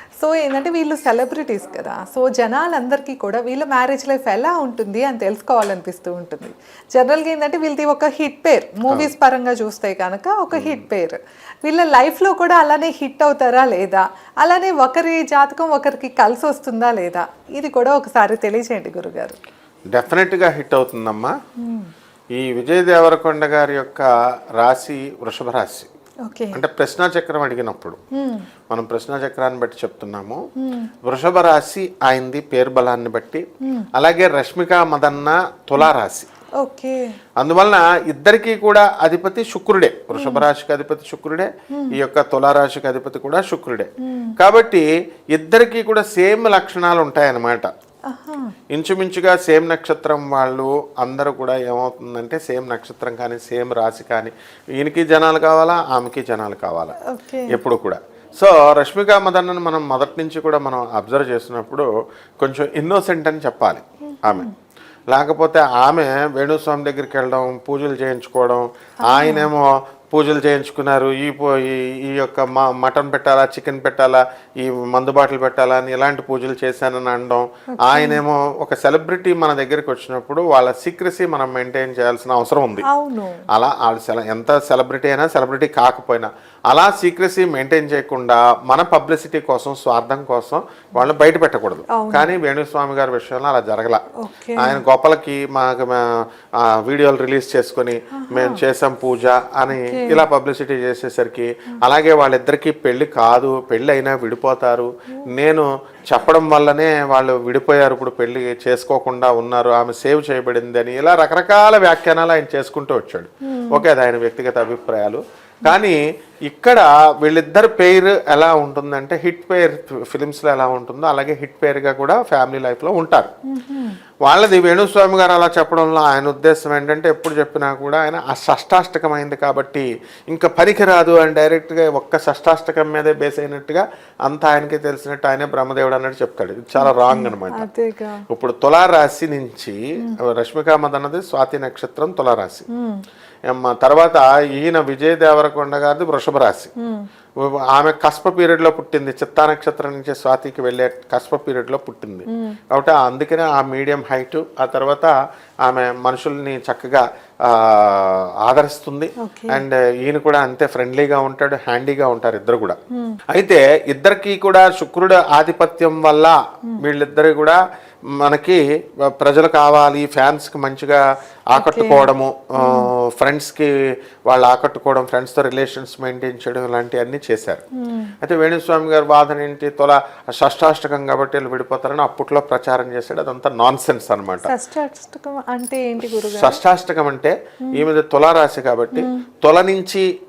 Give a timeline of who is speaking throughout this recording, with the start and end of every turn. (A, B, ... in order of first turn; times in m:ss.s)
0:00.2-0:19.4 A
0:10.5-0:10.8 B
0:19.9-0:21.3 B
0:21.6-0:21.9 A
0:22.4-0:24.1 B
0:24.6-0:25.9 B
0:26.2-0:26.6 A
0:26.5-0:28.0 B
0:28.2-0:28.5 A
0:28.7-0:30.4 B
0:30.6-0:30.9 A
0:31.0-0:36.3 B
0:33.6-0:33.9 A
0:36.6-0:37.0 A
0:37.4-0:47.7 B
0:40.1-0:40.5 A
0:44.0-0:44.4 A
0:48.1-0:48.5 A
0:48.7-0:57.0 B
0:57.1-0:57.6 A
0:57.5-1:01.9 B
1:02.4-1:04.5 B
1:04.1-1:04.5 A
1:05.1-1:22.9 B
1:09.0-1:09.5 A
1:17.8-1:18.2 A
1:22.9-1:23.4 A
1:23.5-1:34.0 B
1:31.9-1:32.3 A
1:34.2-1:34.8 A
1:34.6-1:36.1 B
1:36.6-2:03.3 B
1:38.2-1:38.6 A
1:39.7-1:40.3 A
1:53.5-1:53.8 A
2:03.5-2:04.0 A
2:04.3-2:17.6 B
2:16.8-2:18.2 A
2:18.3-2:22.7 B
2:22.7-2:23.0 A
2:23.5-2:26.7 B
2:26.8-2:27.1 A
2:27.4-2:35.1 B
2:32.3-2:32.6 A
2:35.6-2:42.8 B
2:39.2-2:39.6 A
2:43.0-2:43.2 A
2:43.3-2:47.6 B
2:48.2-2:51.0 B
2:51.5-2:53.7 B
2:51.6-2:52.9 A
2:54.3-2:57.6 B
2:57.8-2:58.1 A
2:58.2-3:04.5 B
3:04.4-3:06.6 A
3:06.2-3:10.0 B
3:09.0-3:09.2 A